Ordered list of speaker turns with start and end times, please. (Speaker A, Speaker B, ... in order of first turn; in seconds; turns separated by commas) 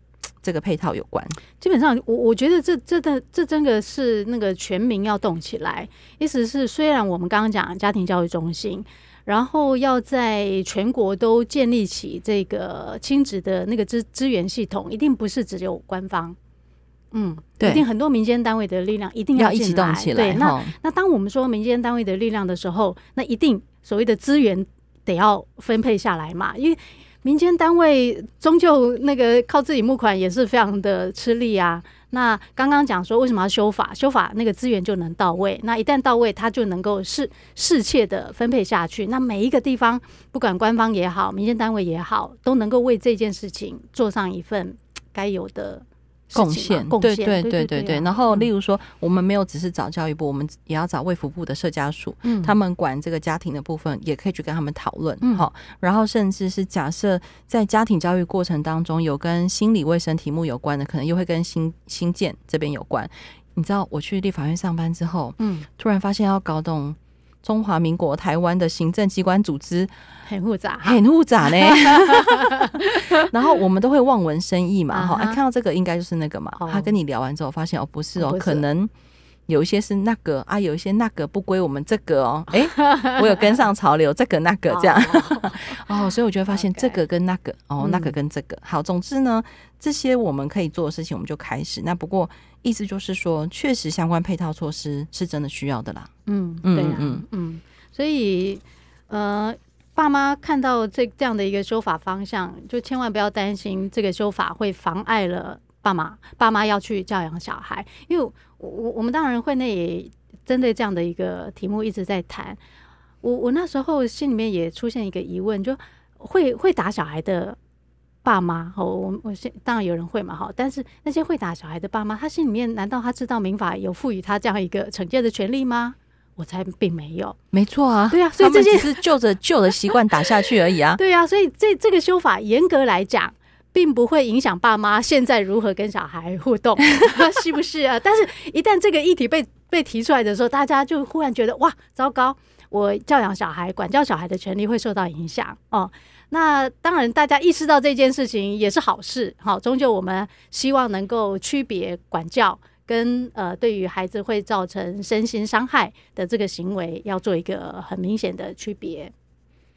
Speaker A: 0.4-1.4, Speaker B: 1.6-16.4, Speaker B: 17.1-48.5, Speaker A: 19.4-20.7, Speaker A: 46.3-69.9, Speaker B: 52.2-52.5, Speaker B: 65.4-65.7, Speaker B: 70.2-73.3, Speaker A: 70.8-78.9, Speaker B: 74.9-75.4, Speaker B: 76.5-76.9, Speaker B: 78.2-78.6, Speaker A: 79.5-96.1, Speaker B: 82.5-83.5, Speaker B: 84.7-87.0, Speaker B: 87.8-88.1, Speaker B: 96.3-112.6, Speaker A: 96.6-97.2, Speaker B: 113.2-117.6, Speaker B: 118.2-127.4, Speaker A: 127.5-131.0, Speaker B: 128.1-129.0, Speaker B: 131.0-159.1